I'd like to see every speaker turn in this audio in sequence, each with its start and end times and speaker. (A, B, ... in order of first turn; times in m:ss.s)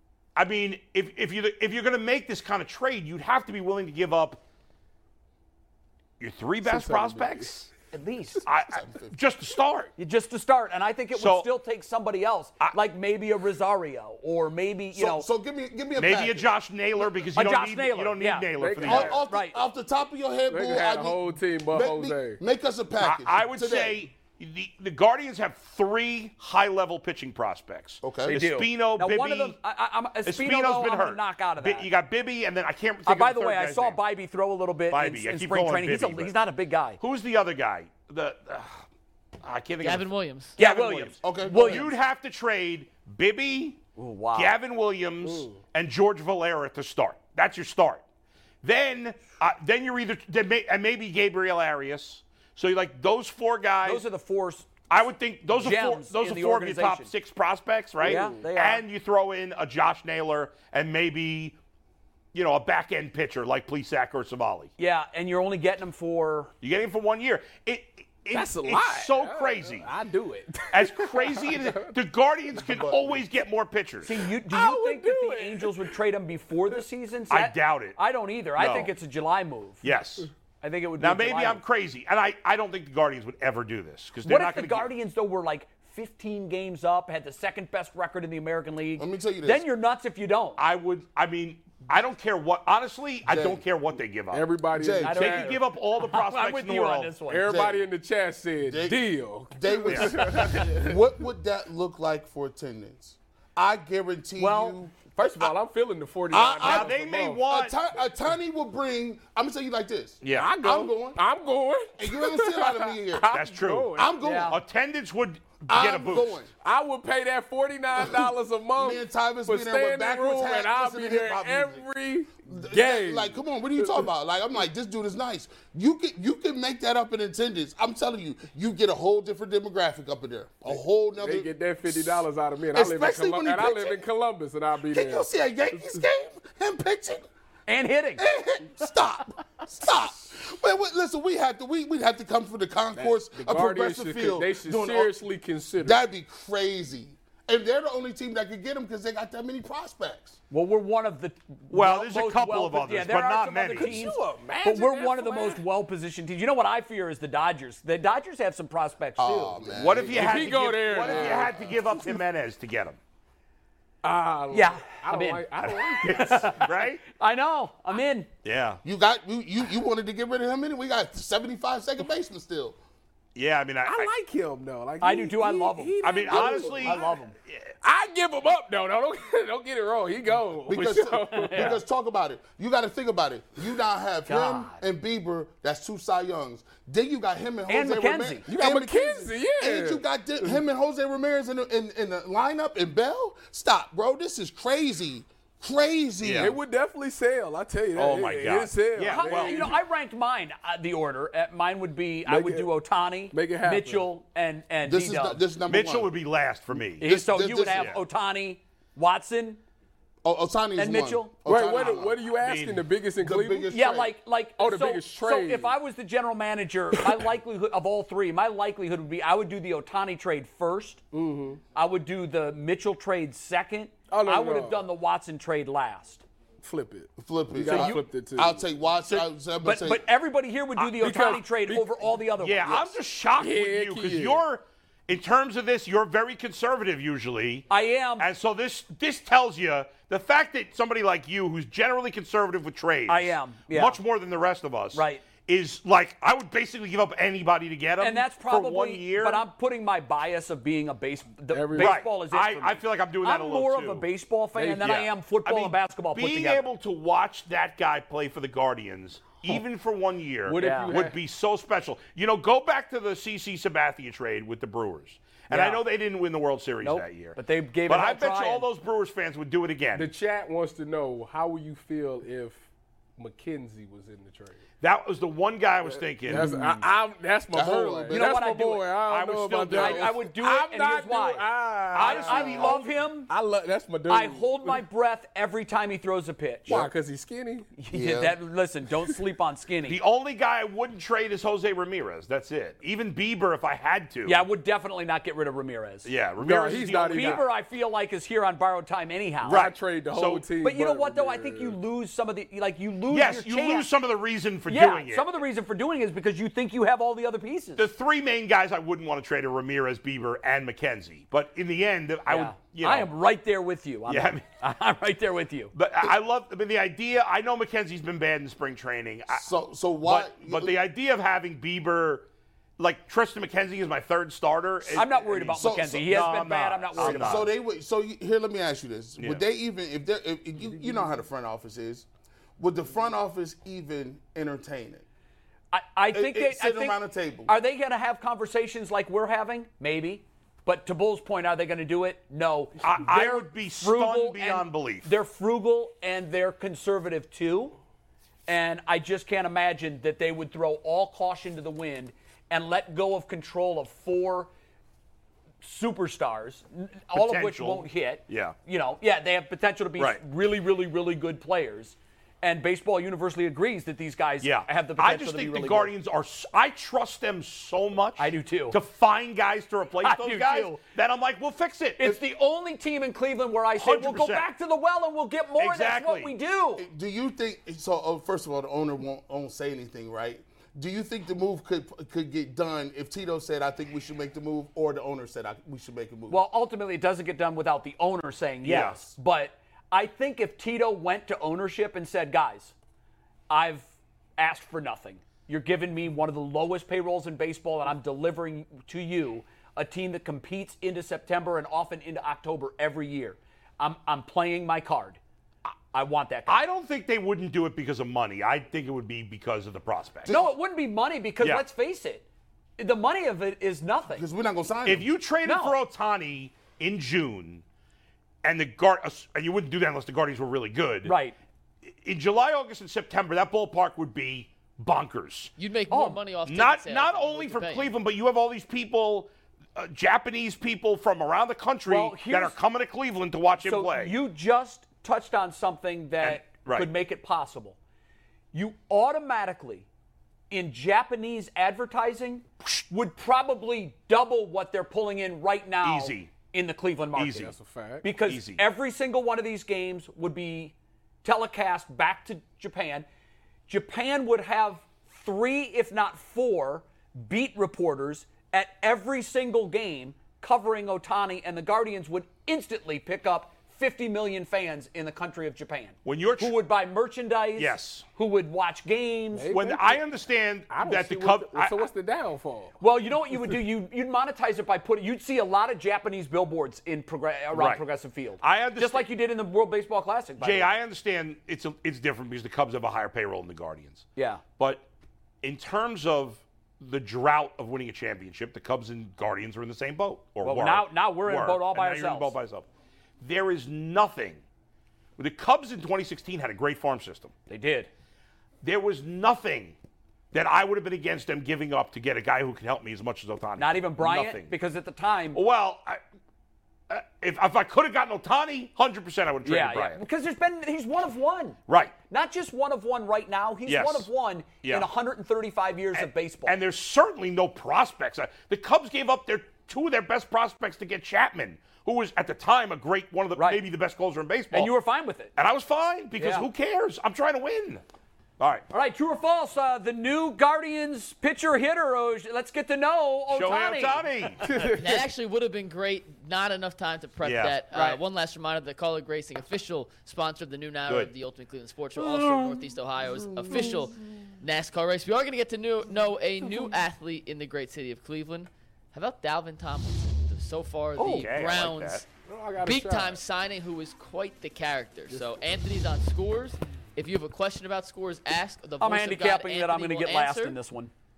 0:00.4-0:04.4 A
0:06.2-0:07.7 A
0:06.6-0:07.5 B
0:07.9-0:08.4 C
0:08.4-0:09.9 A
0:08.5-0:09.1 D
0:10.0-0:15.3 C
0:11.1-0:11.5 A
0:14.9-0:16.5 D
0:16.0-0:19.2 A
0:17.3-0:19.6 C
0:18.5-0:19.2 B
0:18.8-0:24.0 D
0:20.5-0:22.4 B
0:23.0-0:29.6 A
0:28.0-0:28.4 D
0:28.3-0:31.9 C
0:30.2-0:34.0 A
0:33.0-0:37.0 C
0:34.9-0:36.3 A
0:37.0-0:38.8 A
0:39.4-0:43.8 A
0:39.8-0:40.6 E
0:40.6-0:41.9 C
0:41.2-0:41.9 D
0:44.0-0:44.6 C
0:44.3-0:48.0 A
0:45.2-0:45.6 B
0:48.6-0:54.0 A
0:53.8-0:54.7 C
0:54.9-1:01.6 A
0:55.5-0:57.1 C
0:58.0-0:58.5 B
0:58.0-0:58.8 C
1:02.3-1:04.7 A
1:04.8-1:06.5 C
1:06.6-1:09.9 A
1:08.3-1:11.9 B
1:10.7-1:14.1 A
1:12.7-1:13.2 D
1:14.0-1:19.9 C
1:14.3-1:16.0 B
1:17.3-1:18.0 A
1:18.6-1:18.9 A
1:19.8-1:20.3 A
1:20.6-1:21.6 C
1:21.0-1:24.9 A
1:24.2-1:30.6 C
1:29.0-1:29.6 D
1:30.6-1:37.2 A
1:33.2-1:33.6 D
1:34.3-1:35.5 B
1:34.7-1:35.4 D
1:35.0-1:37.4 C
1:37.2-1:40.9 B
1:37.4-1:37.8 D
1:38.6-1:45.0 D
1:39.9-1:40.2 A
1:44.4-1:45.5 C
1:45.2-1:47.4 B
1:46.3-1:46.9 D
1:46.4-1:47.8 A
1:47.4-1:51.2 D
1:50.2-1:50.6 A
1:50.3-1:54.2 B
1:52.0-1:53.3 D
1:53.3-1:56.4 A
1:53.9-1:54.6 D
1:54.2-1:54.6 C
1:55.6-1:56.5 D
1:56.6-2:04.1 B
1:58.0-2:01.8 D
2:02.4-2:14.0 D
2:10.7-2:15.3 B
2:14.9-2:17.3 D
2:17.7-2:18.2 C
2:18.2-2:25.2 D
2:22.9-2:26.0 B
2:25.8-2:30.4 D
2:30.5-2:39.8 C
2:31.7-2:34.1 A
2:33.7-2:35.6 B
2:39.2-2:40.6 D
2:39.8-2:43.0 A
2:39.8-2:42.2 B
2:41.0-2:41.3 C
2:44.0-2:46.6 B
2:44.5-2:45.4 C
2:45.6-2:47.0 A
2:46.0-2:48.3 C
2:48.4-2:48.8 A
2:48.8-2:52.8 D
2:53.3-2:54.1 A
2:53.8-2:57.2 B
2:55.0-2:57.3 C
2:56.0-2:57.7 A
2:57.8-3:01.8 B
3:00.7-3:16.5 D
3:01.3-3:01.8 C
3:04.2-3:04.8 C
3:07.7-3:08.5 C
3:08.4-3:10.6 B
3:16.2-3:16.6 A
3:16.4-3:19.8 B
3:17.9-3:19.8 A
3:19.1-3:25.4 C
3:22.2-3:22.7 B
3:23.3-3:24.1 B
3:24.8-3:26.1 D
3:25.6-3:27.1 A
3:26.9-3:27.9 D
3:27.0-3:29.6 C
3:27.7-3:28.0 A
3:30.2-3:32.2 D
3:30.8-3:31.4 C
3:31.4-3:33.8 B
3:31.8-3:32.9 A
3:33.2-3:34.1 D
3:33.7-3:41.0 C
3:34.6-3:35.7 B
3:41.1-3:41.6 B
3:41.7-3:46.2 C
3:44.1-3:44.9 B
3:46.6-3:48.7 B
3:47.2-3:50.0 D
3:47.6-3:48.0 C
3:49.1-3:53.0 C
3:50.8-3:52.2 B
3:52.4-3:57.7 A
3:53.4-3:54.4 B
3:57.7-3:58.3 C
3:58.2-4:09.4 A
4:03.1-4:04.0 C
4:04.9-4:05.2 C
4:08.0-4:16.6 C
4:11.5-4:12.0 B
4:11.8-4:14.1 A
4:14.5-4:15.0 B
4:14.8-4:30.1 A
4:20.4-4:21.2 B
4:20.6-4:21.0 C
4:25.5-4:25.8 C
4:26.8-4:28.7 C
4:29.9-4:32.6 B
4:33.2-4:34.6 B
4:34.8-4:36.5 A
4:35.8-4:44.8 B
4:36.3-4:36.8 C
4:37.5-4:38.2 D
4:38.1-4:38.9 C
4:39.0-4:40.2 A
4:39.7-4:43.3 C
4:41.9-4:42.8 A
4:44.1-4:46.8 C
4:46.7-4:47.7 B
4:47.8-4:50.0 C
4:47.9-4:48.4 D
4:49.8-4:54.4 A
4:54.2-4:56.1 C
4:56.0-4:57.4 A
4:56.4-4:57.5 B
4:57.0-4:59.7 C
4:59.4-5:00.5 A
4:59.5-5:01.8 B
5:00.6-5:03.9 C
5:03.1-5:05.4 A
5:04.7-5:07.8 C
5:07.8-5:13.1 A
5:12.3-5:15.7 C
5:14.1-5:14.5 A
5:15.7-5:19.4 A
5:19.3-5:20.8 D
5:20.0-5:22.3 A
5:22.8-5:27.5 A
5:24.9-5:27.5 C
5:25.5-5:26.3 D
5:27.0-5:32.1 D
5:32.6-5:35.0 D
5:35.7-5:47.8 C
5:36.1-5:37.5 D
5:42.8-5:45.1 A
5:48.5-5:54.5 C
5:55.6-6:05.9 C
5:57.1-5:58.6 A
6:04.4-6:12.2 A
6:08.2-6:08.8 C
6:10.0-6:10.8 C
6:12.0-6:16.8 C
6:13.7-6:14.5 A
6:15.6-6:16.3 A
6:16.8-6:26.4 D
6:26.3-6:32.7 C
6:28.6-6:29.1 A
6:33.5-6:45.2 C
6:45.9-6:46.6 C
6:46.5-6:50.4 A
6:50.3-6:52.2 C
6:52.8-6:54.2 C
6:54.1-6:55.1 D
6:54.8-6:57.6 A
6:55.4-6:55.8 C
6:58.4-7:01.1 A
7:01.0-7:01.4 C
7:02.0-7:05.5 A
7:05.6-7:07.9 E
7:05.9-7:06.2 C
7:06.4-7:14.2 A
7:11.8-7:12.6 C
7:13.6-7:17.8 C
7:16.2-7:16.9 A
7:18.5-7:19.9 C
7:20.5-7:33.1 C
7:25.8-7:26.3 A
7:27.1-7:27.5 A
7:27.3-7:28.1 B
7:28.1-7:28.6 A
7:33.7-7:49.5 C
7:46.0-7:46.5 A
7:47.6-7:48.0 A
7:49.3-7:52.8 B
7:49.5-7:51.8 A
7:52.8-8:00.8 C
7:57.5-7:57.8 A
7:58.4-7:59.1 A
8:00.4-8:04.9 A
8:04.2-8:04.4 C
8:05.4-8:12.7 A
8:10.4-8:12.4 C
8:13.2-8:14.4 A
8:15.2-8:17.3 A
8:17.5-8:17.9 C
8:18.6-8:19.8 A
8:20.3-8:24.5 A
8:23.6-8:25.4 C
8:25.3-8:26.0 A
8:26.9-8:30.0 A
8:29.4-8:36.6 C
8:31.7-8:31.9 A
8:33.6-8:34.9 A
8:35.9-8:44.7 A
8:43.4-8:43.6 C
8:44.5-8:45.3 C
8:45.4-8:47.8 A
8:46.2-8:46.5 C
8:48.4-8:48.6 A
8:48.7-8:54.4 C
8:53.3-8:54.4 A
8:54.4-8:55.0 B
8:54.6-9:12.0 E
8:57.2-8:57.6 A
8:57.7-8:58.0 C
9:03.5-9:03.8 B
9:11.0-9:12.0 A
9:12.2-9:13.2 B
9:12.6-9:20.6 E
9:18.8-9:20.9 C